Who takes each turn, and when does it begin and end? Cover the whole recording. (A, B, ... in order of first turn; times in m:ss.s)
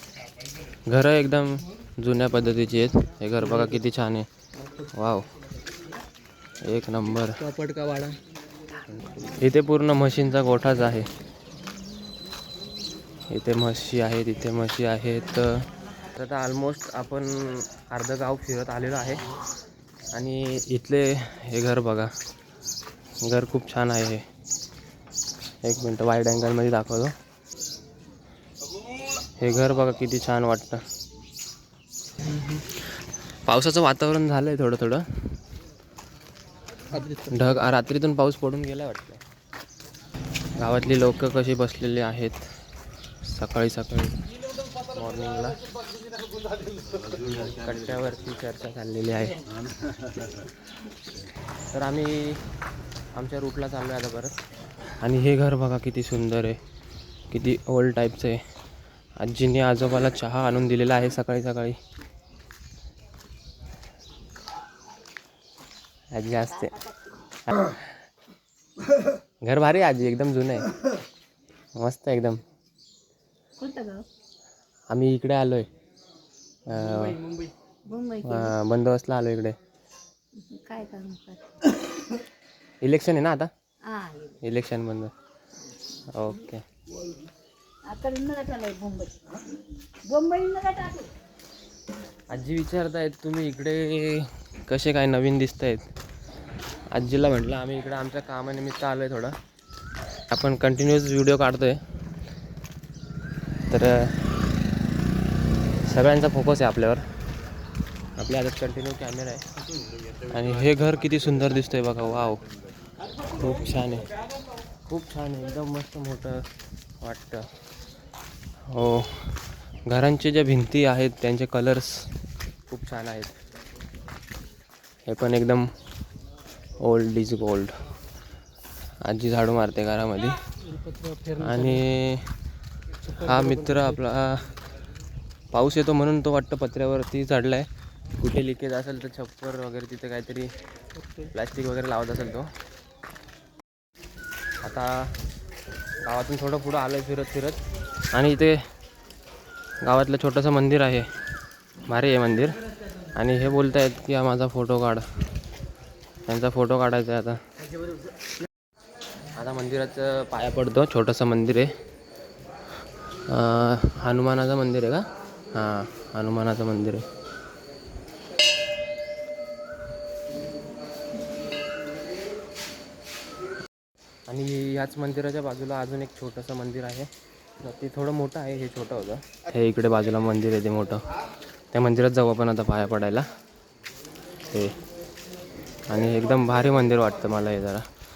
0:00.9-0:04.2 A
0:04.9-0:05.3 A
0:06.6-0:07.4 A
0:07.4-0:08.2 B
0:08.9-0:11.1 A
0:13.3-0:19.2 A
0:20.1-0:22.1 A
0:23.2-0:24.2 A
0:25.6-0:27.1 A
0:29.4-0:30.8 A
0:32.2-0:35.4 A
0:36.9-0:37.5 B
0:37.3-0:39.2 A
0:40.6-0:42.4 A
0:43.2-0:44.2 A
0:44.9-0:45.6 A
0:46.9-0:49.4 A
0:51.7-0:52.4 A
0:53.1-0:54.3 A
0:55.0-0:56.6 A
0:57.3-0:58.4 A
0:59.2-1:01.8 A
1:06.1-1:06.8 A
1:07.4-1:07.8 A
1:09.4-1:10.7 A
1:11.7-1:12.4 A
1:13.6-1:14.0 C
1:14.9-1:15.7 A
1:16.7-1:17.2 A
1:17.9-1:18.5 C
1:18.2-1:19.6 A
1:20.5-1:21.4 C
1:22.8-1:23.5 A
1:23.9-1:24.3 C
1:24.4-1:25.1 A
1:26.1-1:26.6 A
1:27.9-1:29.1 C
1:30.1-1:31.1 C
1:32.3-1:35.8 A
1:36.9-1:39.3 A
1:40.3-1:41.8 A
1:43.7-1:44.2 A
1:45.8-1:47.0 A
1:48.2-1:49.4 A
1:50.3-1:52.4 A
1:53.3-1:54.1 A
1:54.9-1:56.4 A
1:57.0-1:57.5 A
1:58.7-2:02.1 A
2:02.7-2:03.3 A
2:05.1-2:05.6 A
2:06.8-2:07.7 A
2:09.0-2:10.3 A
2:10.7-2:11.8 B
2:11.4-2:12.3 A
2:13.2-2:14.5 A
2:13.2-2:13.9 B
2:15.5-2:17.7 A
2:18.2-2:20.5 A
2:21.3-2:22.5 A
2:24.6-2:24.9 A
2:26.0-2:27.6 A
2:28.1-2:28.6 A
2:29.8-2:31.0 A
2:31.9-2:32.6 A
2:33.2-2:35.0 A
2:36.3-2:37.4 A
2:39.4-2:41.7 A
2:43.3-2:47.0 A
2:54.3-2:57.1 A
2:57.6-3:01.0 A
3:01.7-3:03.2 A
3:05.9-3:07.8 A